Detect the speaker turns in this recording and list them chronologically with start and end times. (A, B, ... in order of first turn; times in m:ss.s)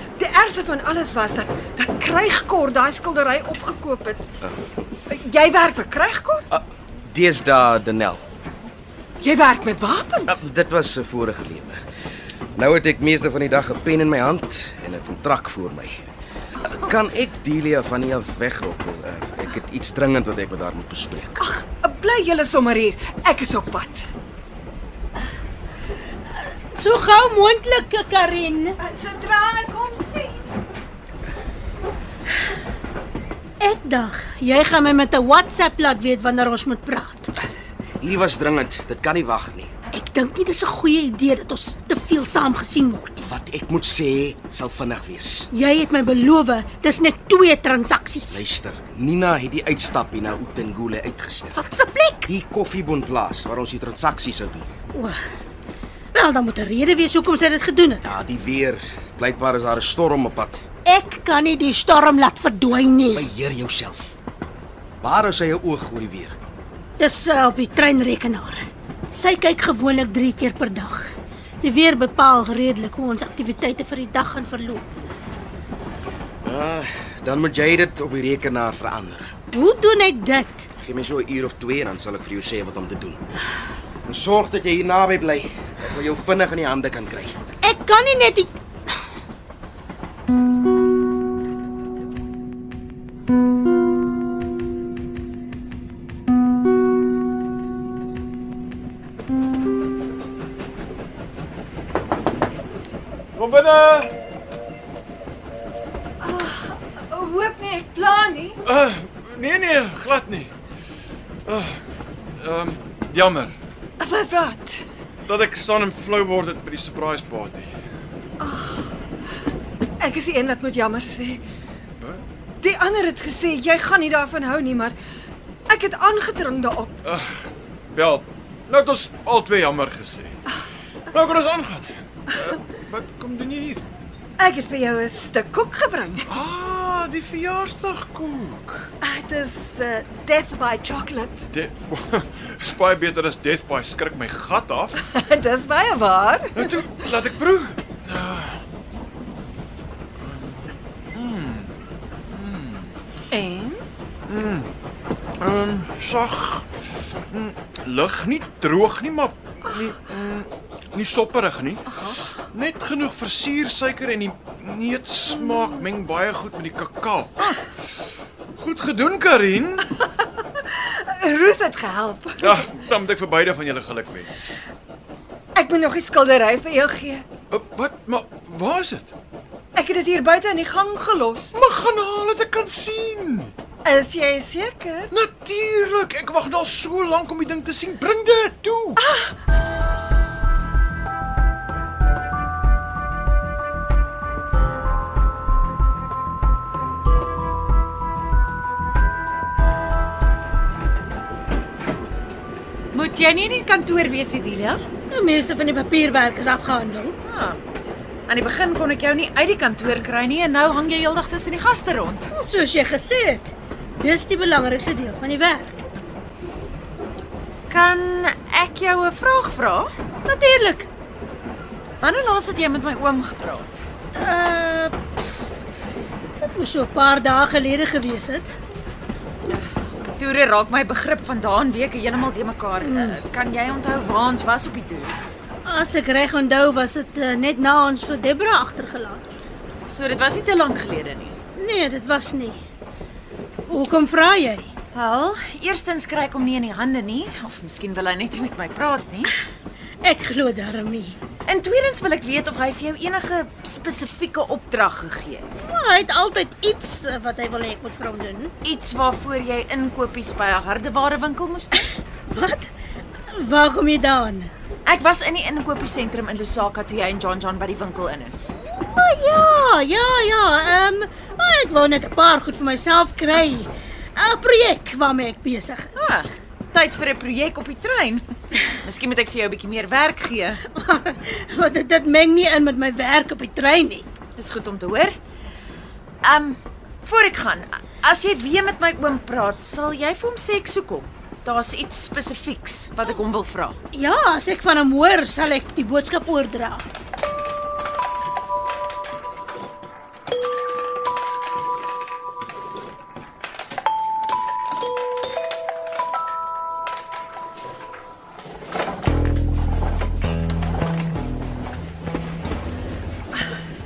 0:00.2-0:04.2 A
0:05.1-0:06.4 A
0:06.5-0:08.2 B
0:09.2-0:10.4 A
0:10.3-0:11.8 B
0:12.6-0:16.0 B
0:16.6-0:21.4 B
0:21.4-0:24.0 A
0:26.4-0:28.8 C
0:28.8-0:30.4 A
0:33.6-0:37.3 C
0:38.0-0:39.7 B
0:39.9-0:43.3 C
0:43.2-0:45.5 B
0:45.5-0:48.4 C
0:48.3-0:51.6 B
0:51.5-0:52.3 C
0:52.3-0:54.7 B
0:56.1-0:58.1 C
0:58.0-1:00.6 B
1:00.8-1:03.3 C
1:03.1-1:04.1 B
1:05.0-1:06.3 B
1:07.0-1:14.9 C
1:16.4-1:19.3 B
1:19.5-1:20.7 C
1:20.8-1:23.2 B
1:24.1-1:27.4 B
1:27.6-1:28.5 C
1:43.4-1:44.1 D
1:46.2-1:48.6 A
1:48.6-1:50.5 D
1:51.4-1:51.8 D
1:52.4-1:53.5 D
1:54.0-1:54.8 A
1:55.3-1:57.7 D
1:58.4-1:58.9 A
2:00.0-2:01.4 A
2:02.6-2:05.0 A
2:05.7-2:06.9 A
2:07.0-2:10.4 D
2:11.1-2:13.8 D
2:14.4-2:16.3 A
2:16.3-2:18.9 D
2:19.0-2:21.5 A
2:21.5-2:25.0 D
2:25.0-2:26.8 A
2:26.6-2:28.6 D
2:30.2-2:30.6 D
2:31.1-2:31.7 D
2:32.3-2:32.9 D
2:33.3-2:33.8 A
2:34.3-2:34.7 D
2:35.4-2:36.7 D
2:37.3-2:41.8 D
2:42.5-2:47.6 D
2:48.6-2:49.9 D
2:50.6-2:52.7 A
2:52.4-2:54.5 D
2:55.5-2:57.2 A
2:57.5-2:59.1 D
2:59.7-3:01.6 A
3:01.5-3:03.5 D
3:03.8-3:05.1 A
3:05.1-3:09.0 D
3:09.0-3:09.3 A
3:22.9-3:24.8 E
3:25.1-3:27.2 C
3:27.3-3:27.6 E
3:28.3-3:32.3 E
3:32.3-3:35.9 C
3:37.7-3:39.9 E
3:40.2-3:40.9 C
3:42.0-3:43.8 E
3:44.1-3:45.0 C
3:46.4-3:48.5 C
3:49.5-3:55.2 E
3:52.8-3:53.2 C
3:55.6-3:59.5 C
3:59.8-4:01.4 E
4:01.5-4:02.6 C
4:03.7-4:04.7 C
4:04.9-4:09.3 E
4:10.0-4:11.2 C
4:11.4-4:15.6 E
4:15.6-4:18.5 C
4:18.6-4:21.8 E
4:22.3-4:22.7 C
4:23.3-4:24.5 C
4:24.8-4:28.5 E
4:28.7-4:36.3 C
4:36.0-4:40.6 E
4:40.6-4:44.1 C
4:44.4-4:45.2 E
4:46.2-4:53.8 E
4:53.9-4:56.8 C